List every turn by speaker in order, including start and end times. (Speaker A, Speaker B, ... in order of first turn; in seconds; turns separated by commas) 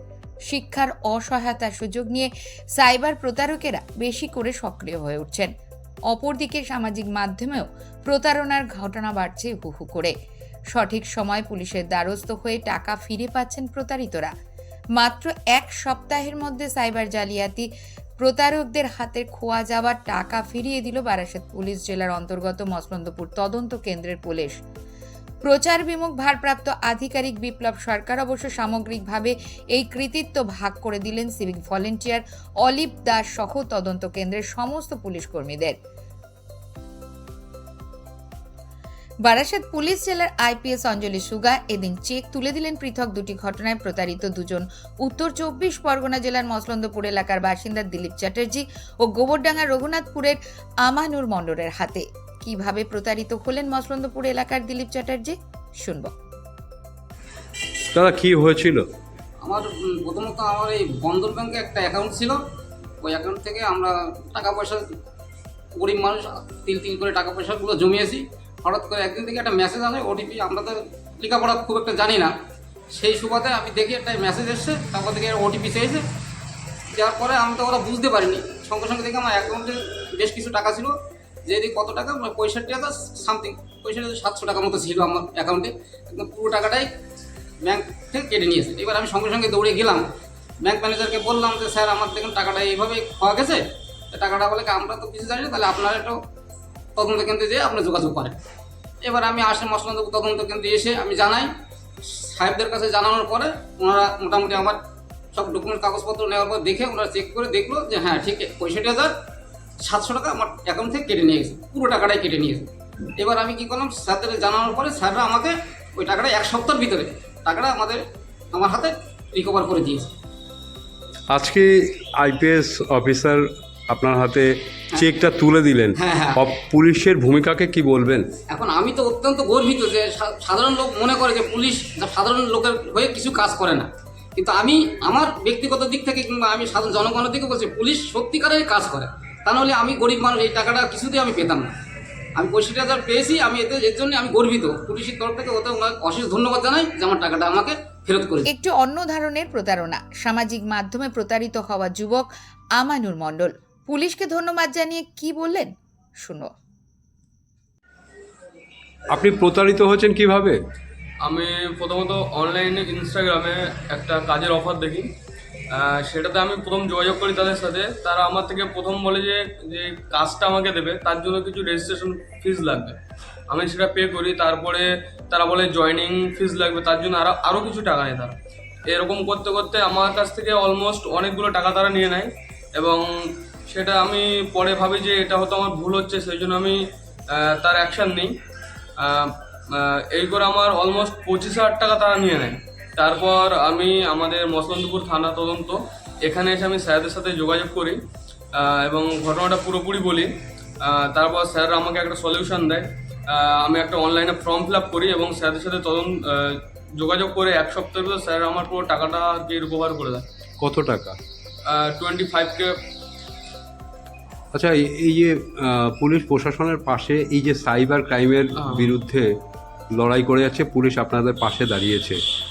Speaker A: 0.5-5.5, Speaker A: 6.1-10.1, Speaker A: 10.7-14.3, Speaker A: 15.0-17.7, Speaker A: 18.2-24.6, Speaker A: 25.4-35.8, Speaker A: 39.2-56.1, Speaker B: 57.9-58.9, Speaker C: 59.4-62.4, Speaker C: 63.0-64.8, Speaker C: 65.8-72.3, Speaker C: 72.9-76.0, Speaker C: 76.9-81.0, Speaker C: 81.5-86.9, Speaker C: 87.6-90.1, Speaker C: 90.6-96.2, Speaker C: 97.0-98.4, Speaker C: 99.0-101.5, Speaker C: 102.0-104.8, Speaker C: 105.3-109.1, Speaker C: 109.8-120.1, Speaker B: 121.3-128.3, Speaker C: 126.0-126.4, Speaker C: 128.5-141.7, Speaker C: 142.3-148.5, Speaker A: 148.5-152.3, Speaker A: 152.8-156.5, Speaker B: 159.1-160.6, Speaker D: 161.2-165.1, Speaker D: 165.7-178.3, Speaker D: 178.9-183.1, Speaker D: 183.7-188.3, Speaker D: 189.0-198.0, Speaker D: 198.5-210.2, Speaker B: 210.6-211.2, Speaker D: 211.7-212.8, Speaker B: 214.5-219.4, Speaker D: 218.6-218.9, Speaker B: 219.9-222.2